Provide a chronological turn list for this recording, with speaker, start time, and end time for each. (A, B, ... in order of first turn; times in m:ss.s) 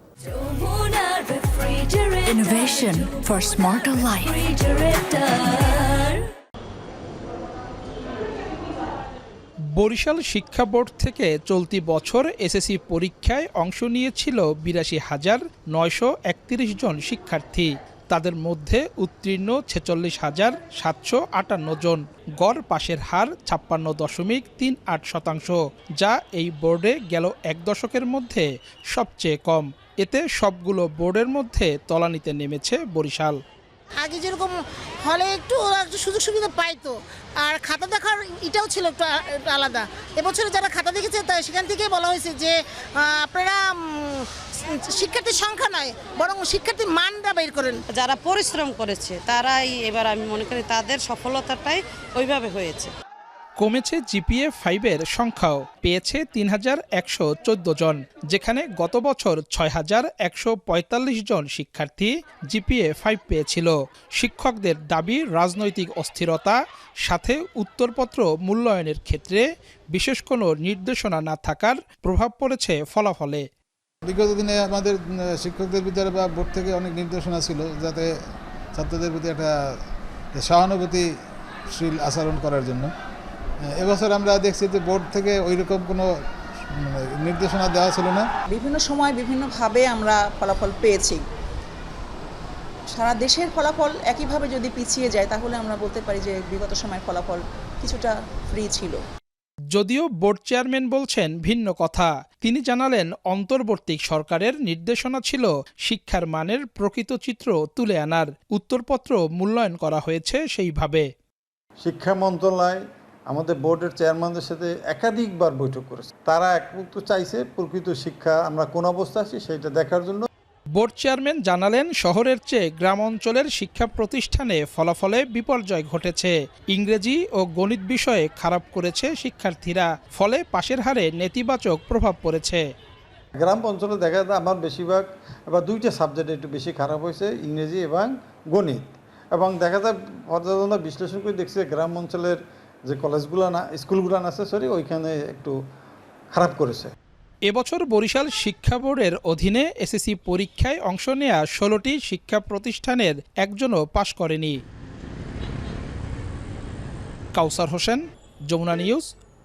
0:00.3-0:06.2 A
0:09.8-0:33.4 B
0:34.0-0:44.3 C
0:44.9-0:47.8 C
0:47.9-0:52.9 D
0:53.6-1:13.4 B
1:14.1-1:18.1 E
1:18.8-1:19.5 E
1:20.4-1:21.1 E
1:21.7-1:22.9 E
1:23.8-1:26.1 E
1:26.8-1:28.3 E
1:28.5-1:31.2 F
1:32.9-1:39.0 F
1:39.7-1:51.1 B
1:51.8-2:00.2 G
2:00.8-2:12.7 B
2:13.4-2:15.0 G
2:15.6-2:22.4 G
2:22.9-2:25.5 G
2:26.4-2:26.9 G
2:27.5-2:34.6 B
2:37.3-2:39.1 B